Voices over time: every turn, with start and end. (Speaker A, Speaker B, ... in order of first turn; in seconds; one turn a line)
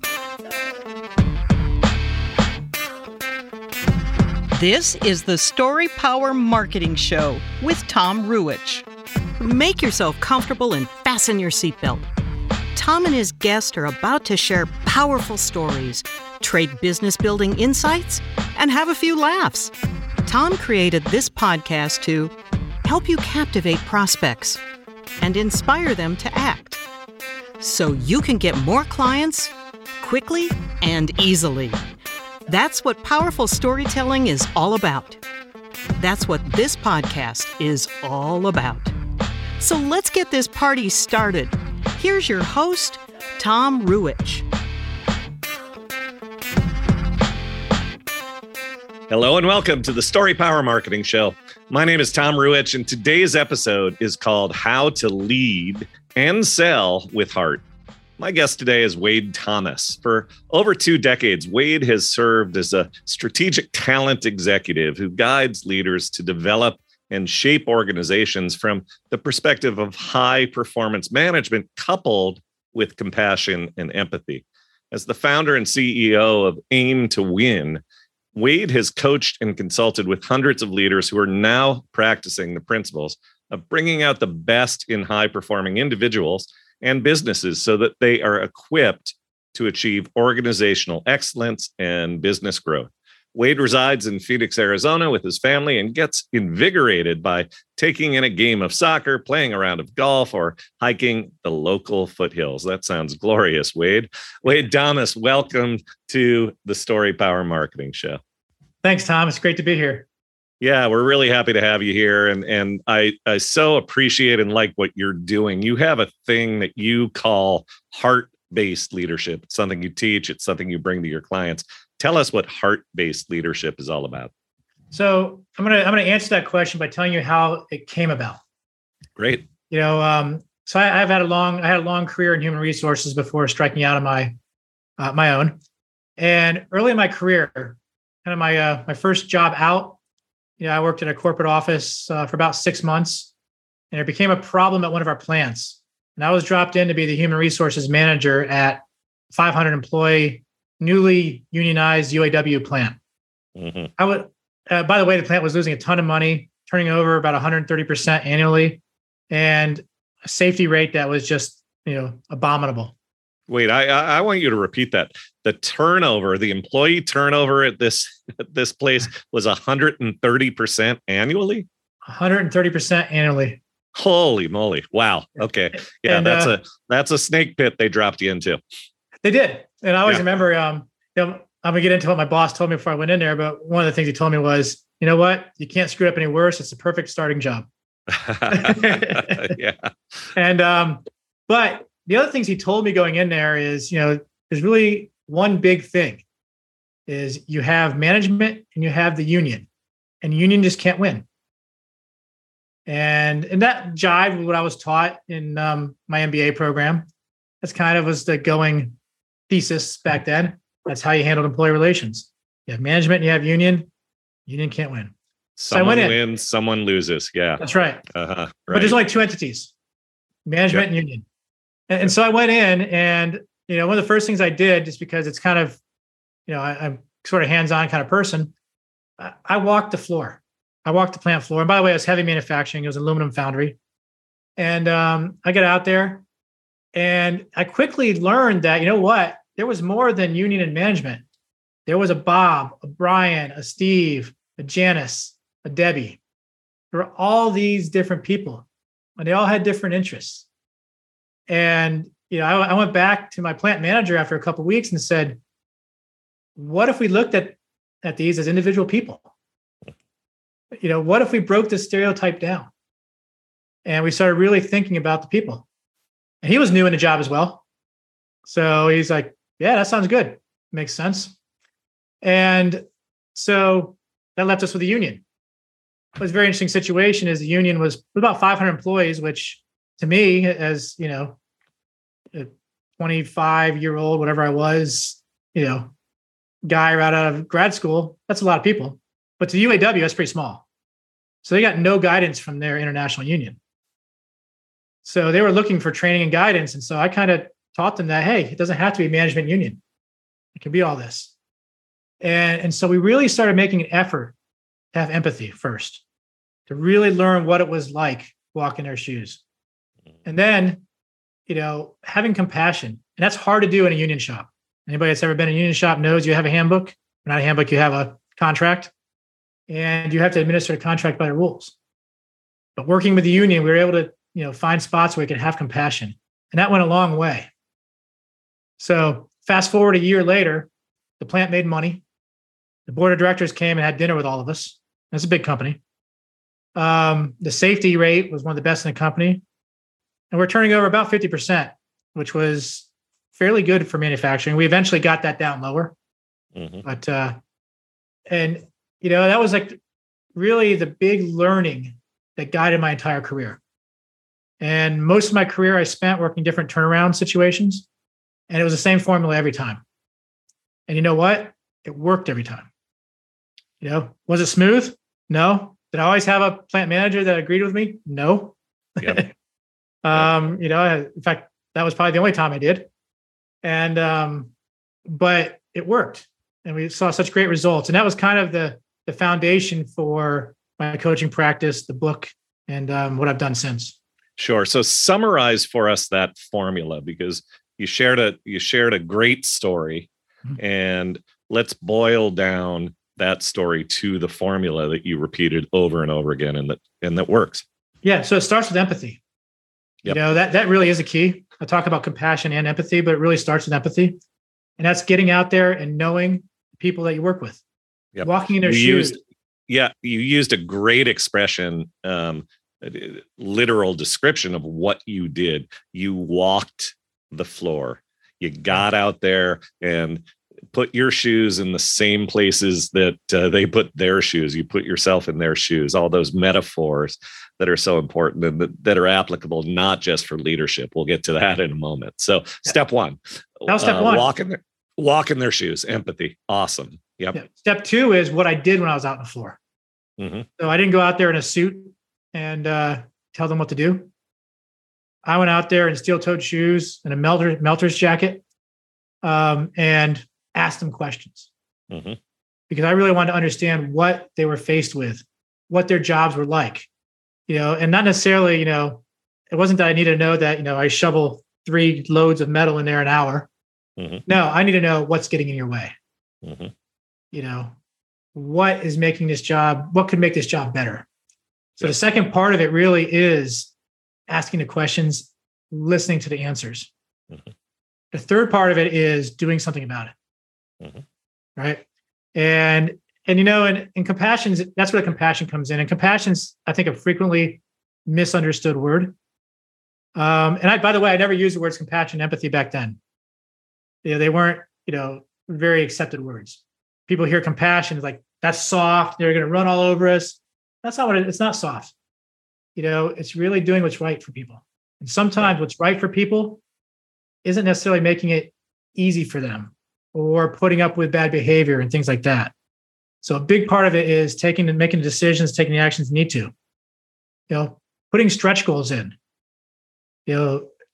Speaker A: 4.5-8.8
Speaker A: 9.4-12.1
Speaker A: 12.8-19.7
Speaker A: 20.2-22.3
Speaker A: 22.8-24.6
Speaker A: 25.2-26.8
Speaker A: 27.6-31.8
Speaker A: 32.5-35.2
Speaker A: 36.0-38.9
Speaker A: 39.6-44.5
Speaker B: 49.1-57.6
Speaker B: 58.2-77.8
Speaker B: 78.3-108.2
Speaker C: 108.8-110.1
Speaker B: 110.6-124.3
Speaker C: 124.9-128.4
Speaker B: 129.2-129.5
Speaker C: 129.7-134.3
Speaker C: 135.0-135.6
Speaker C: 136.2-140.0
Speaker C: 140.6-143.3
Speaker C: 143.9-153.0
Speaker B: 153.6-153.9
Speaker C: 154.0-162.9
Speaker B: 163.5-171.7
Speaker C: 172.1-173.6
Speaker B: 173.9-178.6
Speaker C: 175.7-176.5
Speaker C: 179.2-187.7
Speaker B: 188.1-189.9
Speaker C: 188.5-189.5
Speaker C: 190.3-196.2
Speaker C: 197.1-199.7
Speaker C: 200.2-201.3
Speaker C: 202.9-207.1
Speaker C: 207.6-209.0
Speaker C: 209.5-213.9
Speaker C: 214.5-215.1
Speaker B: 215.6-219.0
Speaker C: 215.7-216.2
Speaker C: 217.6-218.0
Speaker C: 218.7-219.7
Speaker C: 220.5-221.2
Speaker C: 221.9-225.8
Speaker C: 226.5-228.5
Speaker C: 229.2-233.8
Speaker C: 234.6-236.2
Speaker C: 236.9-241.2
Speaker C: 241.9-246.2
Speaker C: 246.9-248.7
Speaker C: 249.2-250.5
Speaker C: 251.5-255.4
Speaker C: 256.6-259.3
Speaker C: 260.8-262.7
Speaker C: 263.9-265.7
Speaker C: 266.4-267.6
Speaker C: 268.4-271.4
Speaker C: 272.2-272.8
Speaker C: 273.4-275.2
Speaker C: 276.2-281.4
Speaker C: 282.3-285.9
Speaker C: 286.6-290.6
Speaker C: 291.4-293.6
Speaker C: 295.0-299.8
Speaker C: 300.6-301.3
Speaker C: 302.2-304.4
Speaker C: 304.9-306.0
Speaker C: 306.7-309.4
Speaker C: 310.2-310.8
Speaker C: 311.5-318.9
Speaker C: 319.7-321.7
Speaker C: 322.8-327.5
Speaker C: 328.8-330.7
Speaker C: 331.2-332.0
Speaker C: 332.9-335.8
Speaker C: 336.8-339.4
Speaker C: 340.3-345.9
Speaker B: 346.5-346.9
Speaker C: 346.8-347.4
Speaker C: 348.3-349.8
Speaker C: 350.4-353.6
Speaker C: 354.6-357.9
Speaker C: 358.5-359.8
Speaker C: 360.9-362.7
Speaker C: 363.8-369.3
Speaker B: 369.0-369.3
Speaker C: 370.0-372.9
Speaker C: 373.6-374.5
Speaker C: 375.1-384.0
Speaker B: 384.4-397.6
Speaker C: 398.0-399.2
Speaker C: 400.1-404.2
Speaker C: 404.8-407.6
Speaker B: 408.1-437.4
Speaker C: 408.2-409.2
Speaker C: 433.7-434.3
Speaker C: 437.3-439.6
Speaker B: 440.2-440.5
Speaker C: 440.6-444.1
Speaker C: 445.2-448.4
Speaker C: 449.2-451.5
Speaker B: 451.9-452.2
Speaker C: 452.7-456.9
Speaker C: 457.5-463.5
Speaker B: 464.0-464.2
Speaker C: 464.3-465.9
Speaker B: 466.4-466.7
Speaker C: 467.3-467.8
Speaker C: 468.4-471.1
Speaker C: 471.8-473.7
Speaker C: 474.3-476.9
Speaker C: 478.1-480.1
Speaker C: 481.6-489.1
Speaker C: 490.1-493.0
Speaker C: 494.0-501.9
Speaker C: 502.8-506.6
Speaker C: 507.4-512.5
Speaker C: 513.2-516.5
Speaker C: 517.5-519.2
Speaker C: 520.3-520.7